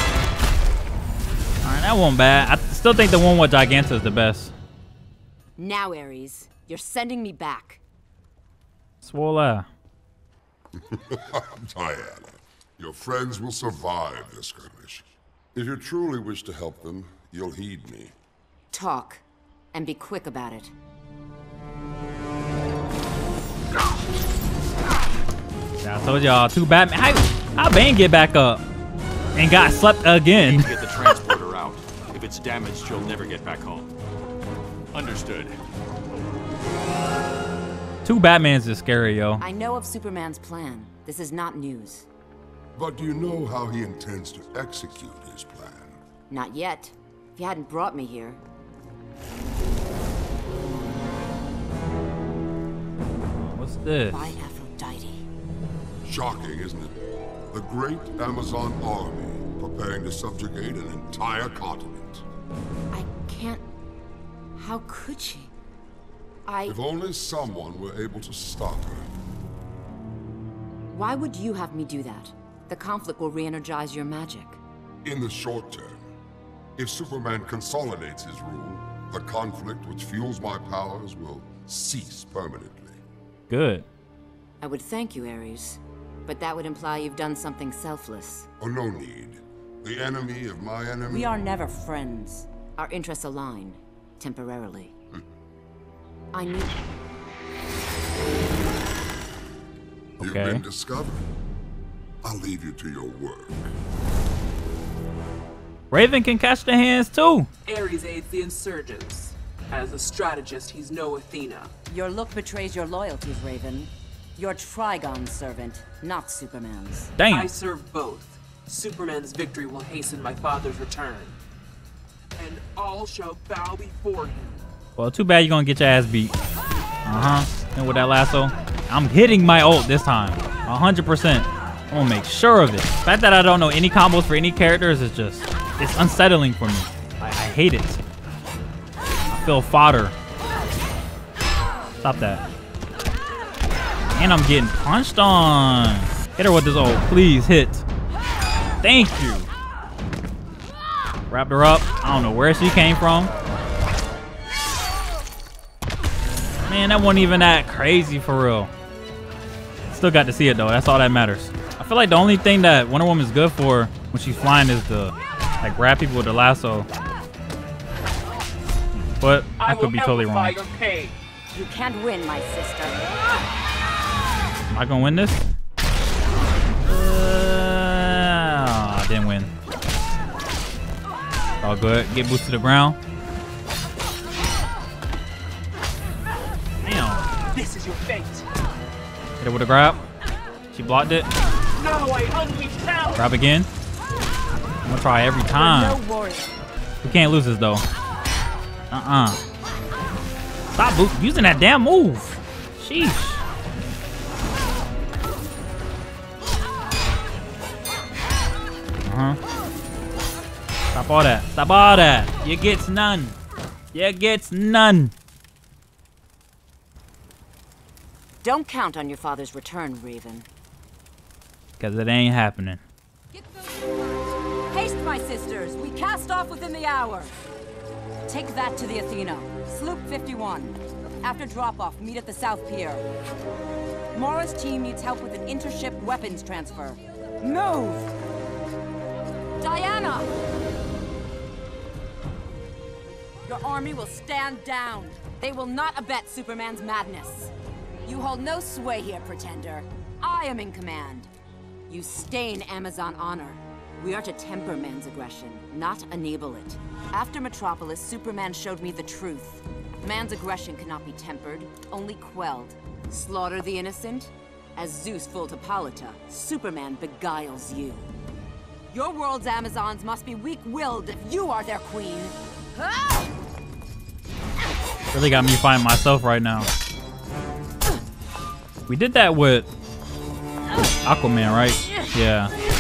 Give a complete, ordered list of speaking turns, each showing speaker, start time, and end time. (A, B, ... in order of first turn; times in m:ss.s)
0:01.6-0:04.5 A
0:05.6-0:07.8 B
0:09.0-0:09.7 A
0:10.8-0:18.1 C
0:18.7-0:19.2 B
0:19.7-0:20.7 B
0:25.8-0:28.6 A
0:29.4-0:30.7 A
0:30.4-0:33.9 D
0:34.9-0:35.6 D
0:38.0-0:39.4 A
0:39.4-0:42.1 B
0:42.8-0:46.0 C
0:46.3-0:48.4 B
0:53.4-0:54.3 A
0:54.1-0:55.2 B
0:56.0-0:57.0 C
0:57.5-1:02.2 C
1:02.9-1:03.6 B
1:04.6-1:05.5 B
1:06.5-1:06.8 B
1:06.7-1:09.1 C
1:10.9-1:14.6 B
1:15.0-1:16.0 C
1:16.8-1:23.0 C
1:23.5-1:23.8 A
1:24.6-1:28.5 B
1:28.6-1:31.3 C
1:31.1-1:34.9 B
1:36.3-1:36.8 B
1:40.2-1:40.6 A
1:40.2-1:41.2 C
1:42.2-1:43.7 C
1:45.9-1:47.5 A
1:47.7-1:51.7 E
1:51.9-1:57.1 B
1:57.2-1:57.5 A
1:57.2-2:01.3 E
2:02.4-2:04.6 E
2:05.0-2:06.3 A
2:07.1-2:18.0 A
2:19.3-2:20.1 A
2:22.0-2:22.4 A
2:24.2-2:27.8 A
2:28.8-2:29.5 A
2:31.3-2:33.3 A
2:36.6-2:38.7 A
2:39.9-2:46.9 A
2:49.2-2:50.6 A
2:49.6-2:51.1 E
2:51.5-2:53.1 B
2:54.7-2:55.5 A
2:56.8-2:59.5 A
3:01.6-3:03.0 A
3:06.8-3:07.3 A
3:07.5-3:08.4 E
3:09.4-3:10.0 A
3:10.7-3:11.3 A
3:11.8-3:13.3 E
3:13.2-3:13.7 A
3:14.9-3:16.0 A
3:15.7-3:16.5 E
3:17.0-3:17.8 A
3:18.9-3:19.4 A
3:20.7-3:23.4 A
3:29.0-3:29.4 A
3:30.9-3:33.4 A
3:33.9-3:35.1 A
3:38.4-3:40.5 B
3:41.8-3:42.8 A
3:44.7-3:47.4 B
3:48.3-3:53.1 B
3:54.1-3:58.2 B
3:59.6-4:00.4 B
4:03.4-4:07.5 B
4:08.1-4:11.3 B
4:11.9-4:28.1 B
4:28.9-4:33.3 B
4:35.1-4:36.7 A
4:38.9-4:39.7 A
4:41.0-4:42.5 A